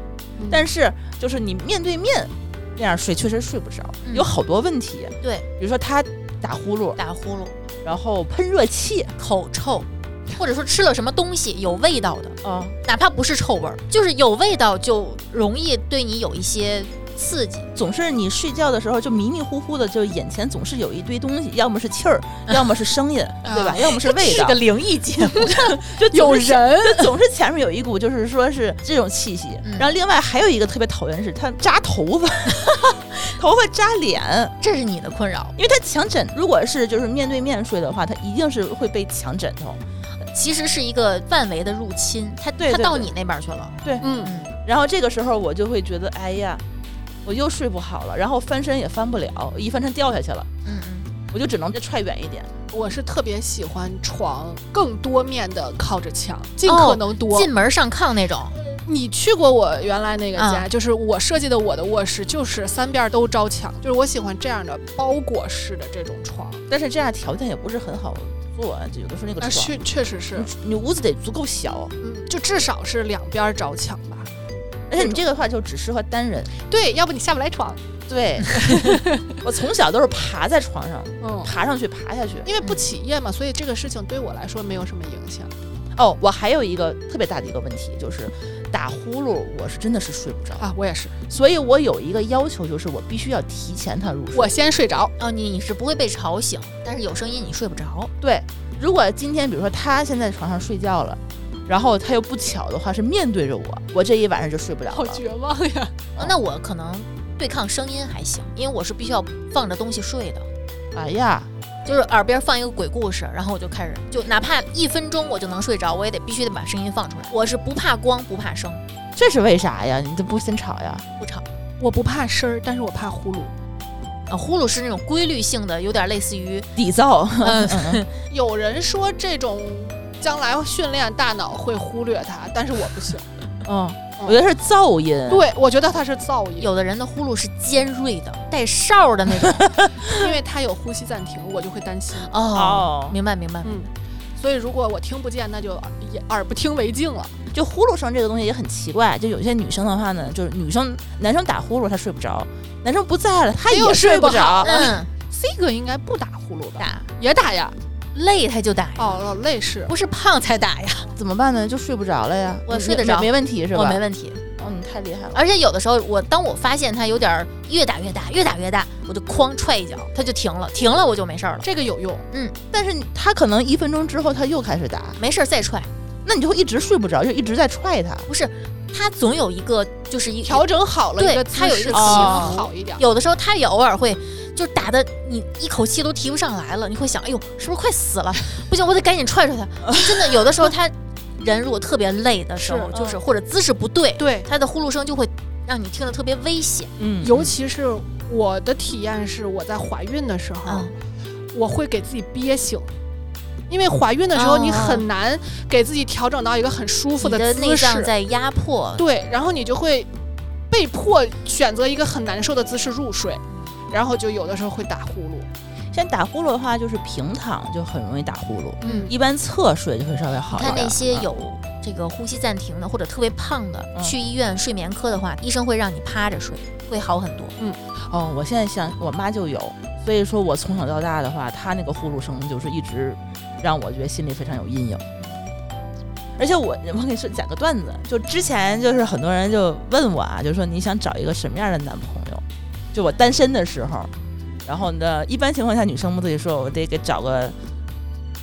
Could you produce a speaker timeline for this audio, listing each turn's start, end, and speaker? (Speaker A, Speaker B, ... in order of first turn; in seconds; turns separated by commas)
Speaker A: 0.4-0.7, Speaker B: 0.5-7.0, Speaker C: 4.0-4.3, Speaker C: 5.2-5.5, Speaker C: 7.0-7.6, Speaker B: 7.8-9.1, Speaker C: 9.2-17.7, Speaker B: 12.4-12.8, Speaker B: 17.8-24.6, Speaker A: 23.4-23.9, Speaker C: 23.8-26.4, Speaker B: 25.4-34.5, Speaker A: 26.1-27.1, Speaker C: 29.6-29.9, Speaker C: 34.6-35.6, Speaker B: 35.6-39.8, Speaker C: 40.3-44.5, Speaker B: 42.6-43.1, Speaker A: 44.0-44.3, Speaker B: 44.6-46.6, Speaker B: 47.2-50.5, Speaker C: 50.6-51.1, Speaker B: 51.3-52.5, Speaker A: 52.7-57.5, Speaker C: 56.6-58.6, Speaker A: 58.8-66.6, Speaker C: 60.4-60.7, Speaker B: 66.7-69.8, Speaker A: 69.4-70.5, Speaker B: 70.3-71.9, Speaker A: 72.0-74.3, Speaker B: 74.9-76.5, Speaker A: 75.0-75.2, Speaker A: 76.7-77.8, Speaker B: 78.1-82.5, Speaker A: 78.5-79.2, Speaker A: 81.2-81.5, Speaker A: 82.5-85.5, Speaker B: 86.0-90.7, Speaker A: 90.6-91.2, Speaker B: 91.3-94.5, Speaker A: 94.3-95.1, Speaker C: 95.2-98.1, Speaker B: 98.2-105.2, Speaker A: 104.9-106.0, Speaker C: 106.2-110.5, Speaker B: 110.9-111.5, Speaker C: 111.8-118.8, Speaker B: 119.2-121.0, Speaker C: 121.2-121.5, Speaker A: 121.8-123.5, Speaker C: 124.3-126.7, Speaker B: 126.8-128.0, Speaker C: 127.4-128.1, Speaker A: 128.3-133.3, Speaker B: 133.7-135.5, Speaker A: 135.3-136.7, Speaker C: 136.6-139.8, Speaker B: 139.7-140.2, Speaker A: 140.0-142.3, Speaker C: 142.2-143.9, Speaker B: 142.5-143.2, Speaker A: 143.6-147.3, Speaker B: 147.5-154.8, Speaker A: 153.7-157.8, Speaker C: 154.6-155.1, Speaker C: 156.8-157.1, Speaker C: 158.1-159.2, Speaker A: 159.0-159.9, Speaker C: 159.9-161.1, Speaker B: 161.1-164.0, Speaker C: 162.7-164.4, Speaker B: 164.6-165.4, Speaker C: 165.3-171.7, Speaker A: 171.6-172.2, Speaker B: 172.7-175.2, Speaker C: 175.2-175.9, Speaker B: 176.2-178.3, Speaker C: 178.3-197.6, Speaker A: 180.4-183.0, Speaker B: 181.9-182.6, Speaker B: 189.8-190.4, Speaker A: 192.6-193.2, Speaker A: 194.2-194.5, Speaker B: 197.0-197.3, Speaker A: 197.2-200.9, Speaker C: 200.7-200.9, Speaker A: 201.5-202.9, Speaker A: 203.7-208.1, Speaker C: 204.3-205.1, Speaker C: 207.2-209.1, Speaker A: 209.0-210.1, Speaker A: 210.7-215.5, Speaker B: 215.9-221.3, Speaker A: 218.8-219.1, Speaker C: 218.8-219.1, Speaker C: 220.5-227.6, Speaker B: 228.1-235.0, Speaker B: 236.4-244.1, Speaker B: 244.7-247.6